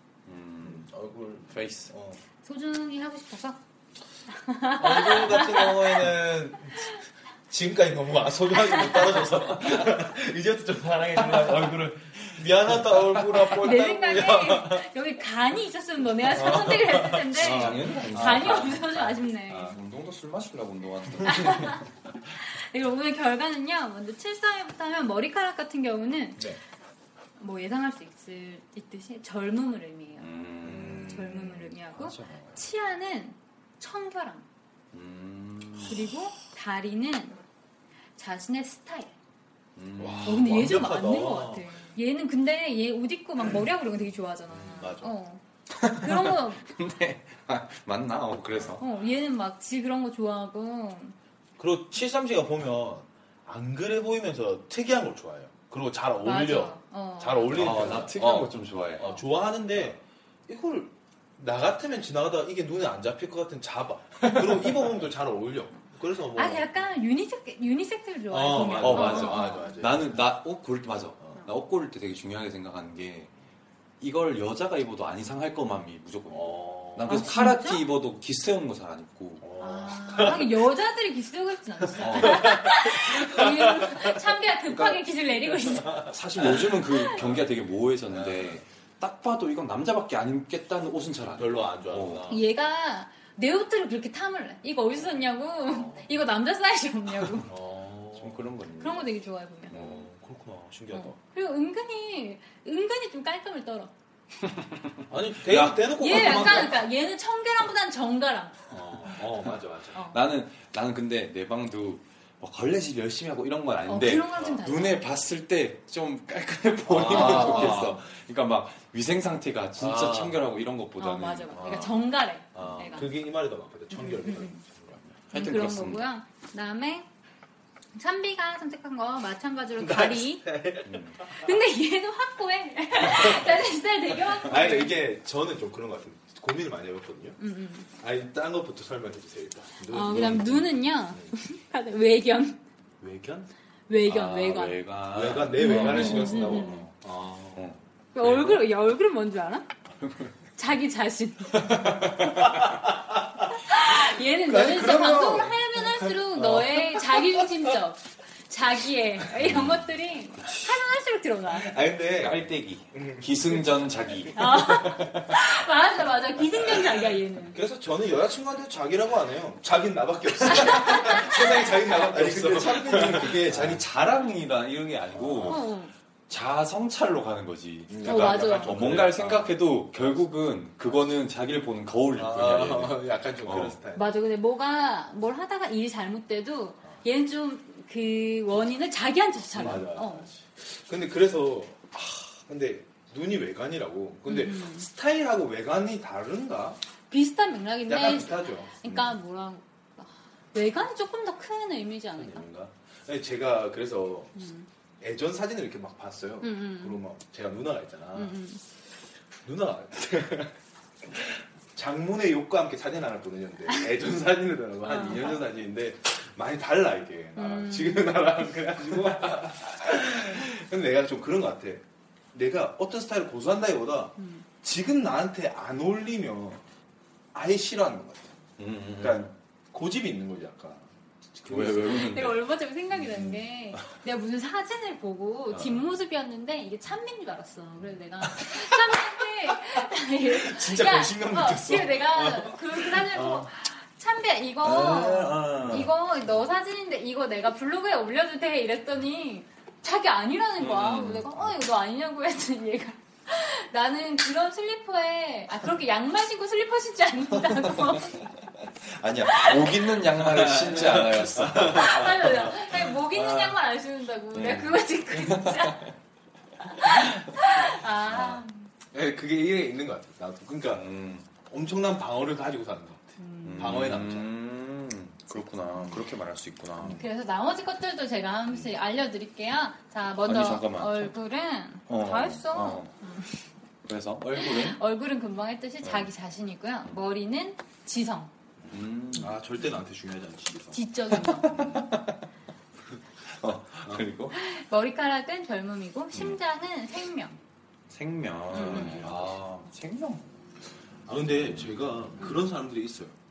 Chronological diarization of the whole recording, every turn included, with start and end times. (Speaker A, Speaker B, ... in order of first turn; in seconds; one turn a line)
Speaker A: 0.2-0.9
Speaker B: 0.6-2.2
Speaker A: 1.5-1.9
Speaker C: 2.4-3.6
Speaker C: 4.3-6.0
Speaker B: 4.8-6.9
Speaker B: 7.5-14.9
Speaker C: 8.6-9.0
Speaker A: 11.3-12.3
Speaker A: 12.9-13.4
Speaker C: 13.5-19.8
Speaker B: 16.3-18.9
Speaker A: 16.5-21.9
Speaker C: 21.2-26.6
Speaker C: 27.4-34.5
Speaker A: 30.2-32.6
Speaker B: 30.6-31.3
Speaker A: 34.9-36.1
Speaker C: 35.8-37.4
Speaker C: 38.1-39.1
Speaker A: 39.8-40.9
Speaker B: 40.0-41.9
Speaker C: 40.2-46.6
Speaker B: 44.5-45.1
Speaker A: 45.7-48.8
Speaker C: 48.8-51.1
Speaker B: 51.6-66.8
Speaker C: 56.2-57.9
Speaker A: 57.5-59.1
Speaker A: 64.2-64.9
Speaker C: 66.3-69.8
Speaker B: 68.3-70.2
Speaker A: 68.6-73.3
Speaker A: 74.0-79.5
Speaker B: 76.3-77.3
Speaker C: 77.1-77.8
Speaker B: 79.4-80.6
Speaker C: 79.6-86.1
Speaker A: 80.1-80.4
Speaker A: 82.0-82.7
Speaker B: 82.0-82.6
Speaker A: 84.7-85.0
Speaker A: 85.8-92.3
Speaker B: 86.4-87.3
Speaker B: 88.1-88.6
Speaker B: 91.3-92.4
Speaker C: 92.3-97.5
Speaker B: 97.5-98.5
Speaker A: 98.2-99.1
Speaker C: 98.8-99.8
Speaker A: 99.7-100.1
Speaker B: 99.7-101.2
Speaker C: 100.9-103.9
Speaker A: 104.4-106.5
Speaker B: 105.1-106.8
Speaker C: 105.9-108.6
Speaker B: 108.7-110.0
Speaker A: 110.0-123.0
Speaker C: 113.8-115.0
Speaker B: 116.9-118.0
Speaker C: 117.1-117.9
Speaker B: 119.8-120.5
Speaker C: 121.0-123.2
Speaker B: 122.5-125.0
Speaker C: 123.9-124.6
Speaker A: 125.3-126.0
Speaker C: 125.3-127.1
Speaker C: 127.9-130.5
Speaker B: 129.8-131.0
Speaker A: 130.8-131.2
Speaker C: 131.2-135.0
Speaker B: 133.0-133.5
Speaker B: 134.4-137.4
Speaker C: 137.4-137.9
Speaker B: 138.0-141.3
Speaker C: 139.9-142.6
Speaker B: 143.0-143.5
Speaker C: 143.9-144.9
Speaker A: 144.1-146.9
Speaker B: 145.0-147.8
Speaker C: 145.6-146.9
Speaker A: 147.6-148.6
Speaker C: 148.1-149.7
Speaker A: 150.0-150.3
Speaker C: 150.6-152.1
Speaker A: 151.6-152.6
Speaker B: 152.0-153.5
Speaker C: 153.5-161.7
Speaker B: 154.4-157.7
Speaker A: 154.8-155.4
Speaker A: 159.4-160.8
Speaker B: 161.5-164.5
Speaker A: 162.2-165.3
Speaker C: 164.3-167.6
Speaker B: 167.5-173.8
Speaker C: 170.5-171.4
Speaker A: 170.8-175.7
Speaker B: 175.1-175.6
Speaker C: 175.4-175.9
Speaker A: 176.3-183.8
Speaker B: 177.9-180.1
Speaker C: 178.0-178.8
Speaker B: 182.1-184.2
Speaker C: 183.9-190.3
Speaker B: 189.5-196.8
Speaker A: 189.6-189.8
Speaker C: 194.2-194.9
Speaker C: 197.1-202.5
Speaker B: 197.8-199.1
Speaker B: 202.2-204.3
Speaker C: 204.3-204.7
Speaker B: 205.0-208.4
Speaker C: 206.4-207.0
Speaker C: 208.1-208.6
Speaker B: 209.4-226.6
Speaker C: 214.8-215.4
Speaker C: 217.3-218.2
Speaker C: 224.2-224.4
Speaker B: 227.3-228.4
Speaker A: 228.6-229.3
Speaker B: 228.9-232.2
Speaker A: 231.4-232.4
Speaker C: 231.8-258.3
Speaker A: 232.9-233.8
Speaker B: 240.0-243.5
Speaker A: 244.6-245.9
Speaker B: 245.5-245.9
Speaker A: 250.6-251.4
Speaker A: 258.8-263.3
Speaker C: 259.5-259.7
Speaker B: 260.1-262.5
Speaker C: 261.6-265.9
Speaker A: 264.3-265.9
Speaker C: 266.6-268.7
Speaker A: 266.8-267.3
Speaker A: 268.1-268.4
Speaker B: 268.9-270.9
Speaker A: 270.7-271.3
Speaker B: 271.4-274.3
Speaker C: 273.2-273.9
Speaker A: 273.4-277.0
Speaker B: 276.8-277.0
Speaker C: 277.0-283.4
Speaker A: 280.2-281.1
Speaker A: 281.9-282.9
Speaker A: 283.9-284.8
Speaker C: 284.3-288.3
Speaker A: 285.8-286.1
Speaker B: 288.6-291.9
Speaker A: 288.7-289.4
Speaker C: 290.7-291.6
Speaker A: 291.2-292.2
Speaker A: 293.3-294.4
Speaker C: 294.3-297.4
Speaker A: 297.9-300.2
Speaker C: 298.5-299.1
Speaker B: 298.5-299.4
Speaker B: 301.1-303.2